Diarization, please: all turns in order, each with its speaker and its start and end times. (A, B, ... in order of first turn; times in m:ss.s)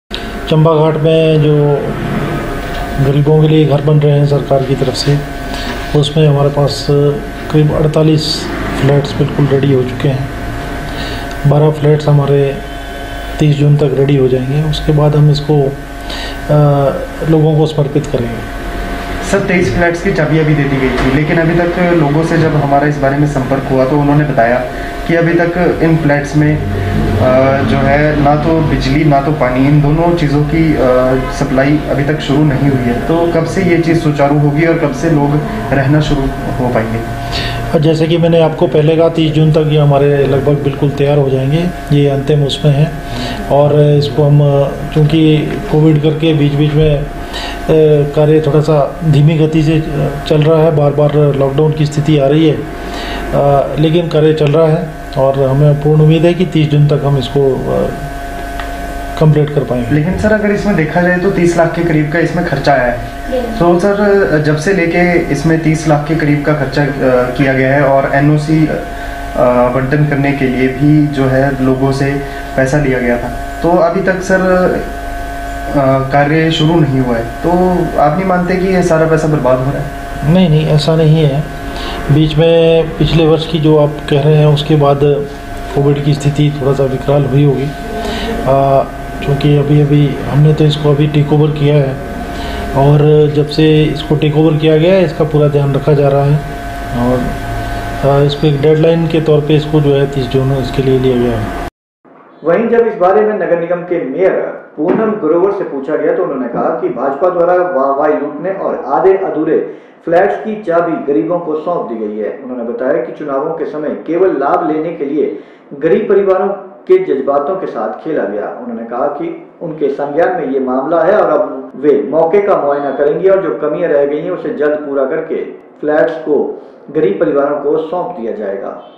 0:00.5-0:02.4 A
0:03.0-0:05.2 A
0:05.9-0:10.3 A
0:11.4-0:12.6 A
0:13.4-0:15.8 A
0:16.5-0:18.5 A
0:19.2-0:26.6 B
0:27.2-0:37.0 B
0:37.7-0:52.6 A
0:53.1-0:58.1 A
0:59.2-1:00.0 A
0:59.9-1:08.8 B
1:09.3-1:14.9 B
1:15.7-1:19.9 B
1:20.2-1:21.5 A
1:22.1-1:32.0 A
1:32.7-1:37.4 A
1:38.0-1:41.5 A
1:42.4-2:08.8 C